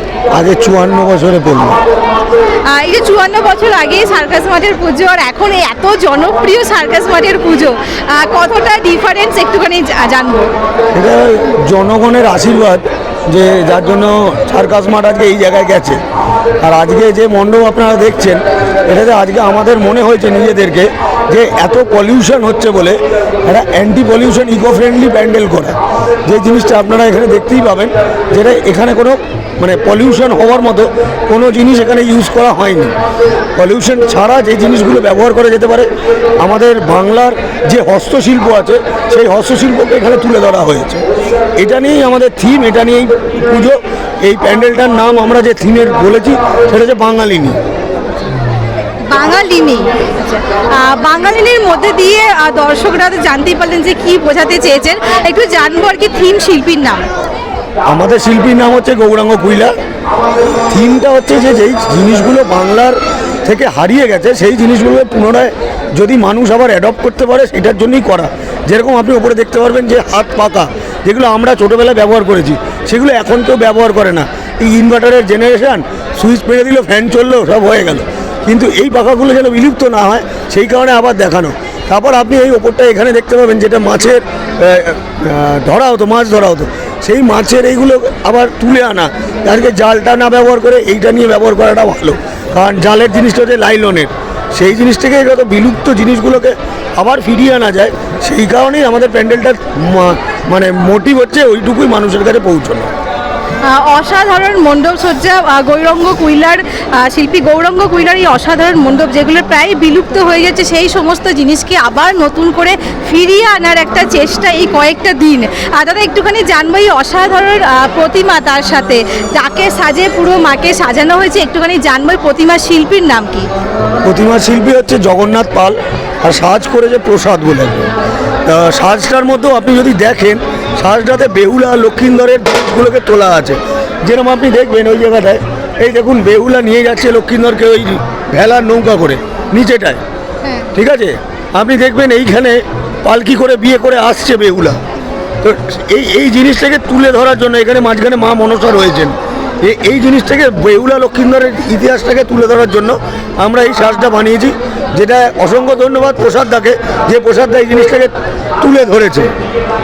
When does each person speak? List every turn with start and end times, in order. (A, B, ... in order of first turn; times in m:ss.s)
0:00.3-0:01.8 A
0:02.6-0:10.5 B
0:10.9-0:16.0 A
0:16.6-0:32.9 A
0:33.6-0:35.9 A
0:36.4-0:41.0 A
0:41.6-0:47.6 A
0:49.1-0:57.1 B
0:57.8-0:59.7 A
1:00.7-1:42.9 A
1:43.6-2:03.5 B
2:04.0-2:07.8 A
2:08.4-2:20.0 A
2:20.4-2:20.7 B
2:20.7-2:24.8 A
2:25.4-2:39.3 A